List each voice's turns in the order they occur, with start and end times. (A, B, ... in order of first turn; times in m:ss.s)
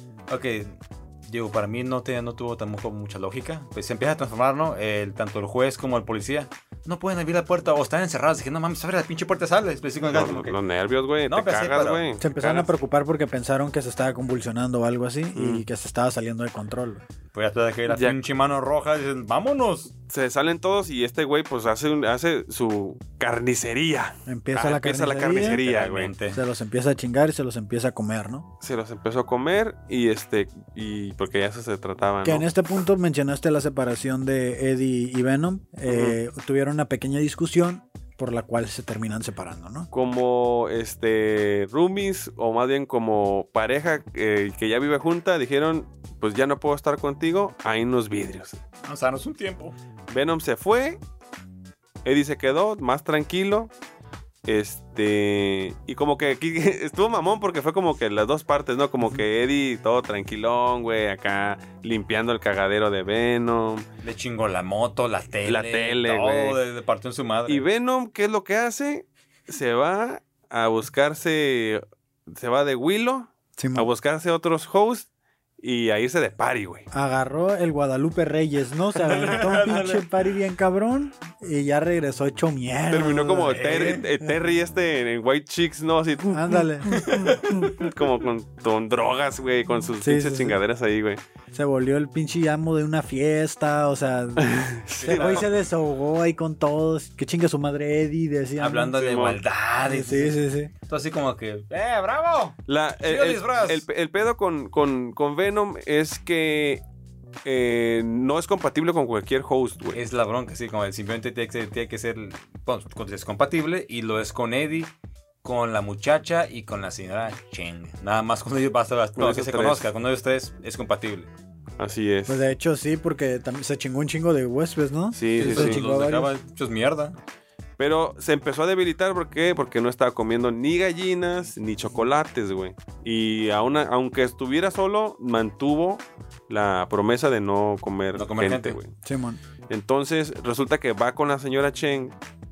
0:00.3-0:10.6 A
0:10.1-0:12.7 B
0:11.3-0:12.0 A
0:12.2-0:17.0 C
0:15.4-0:15.6 B
0:17.3-0:19.9 A
0:17.9-0:18.2 B
0:20.1-0:26.1 B
0:24.3-0:25.6 C
0:25.4-0:26.4 A
0:26.3-0:28.5 C
0:28.6-0:32.5 B
0:32.2-0:39.9 C
0:35.9-0:36.2 B
0:39.9-0:48.6 B
0:48.8-0:49.8 A
0:50.1-0:51.0 B
0:52.0-0:53.7 B
0:54.5-1:03.9 B
1:04.0-1:07.6 A
1:05.4-1:06.6 B
1:07.5-1:15.1 B
1:13.6-1:13.9 C
1:15.6-1:16.9 B
1:16.9-1:23.9 C
1:19.0-1:20.1 A
1:22.9-1:31.2 B
1:23.5-1:24.1 A
1:26.3-1:27.7 C
1:26.9-1:27.8 A
1:30.0-1:30.6 C
1:31.5-1:34.5 C
1:34.4-1:35.5 B
1:35.0-1:35.5 A
1:35.1-1:39.0 C
1:38.6-1:43.9 A
1:39.0-1:39.4 B
1:39.9-1:40.7 C
1:42.7-1:46.8 B
1:47.4-1:50.0 B
1:49.9-1:54.9 A
1:55.4-2:01.3 A
1:59.2-1:59.9 B
2:01.8-2:02.4 B
2:02.3-2:06.3 C
2:05.1-2:05.8 B
2:05.4-2:07.2 A
2:07.8-2:18.9 B
2:18.1-2:18.8 A
2:19.0-2:19.4 C
2:19.7-2:22.1 B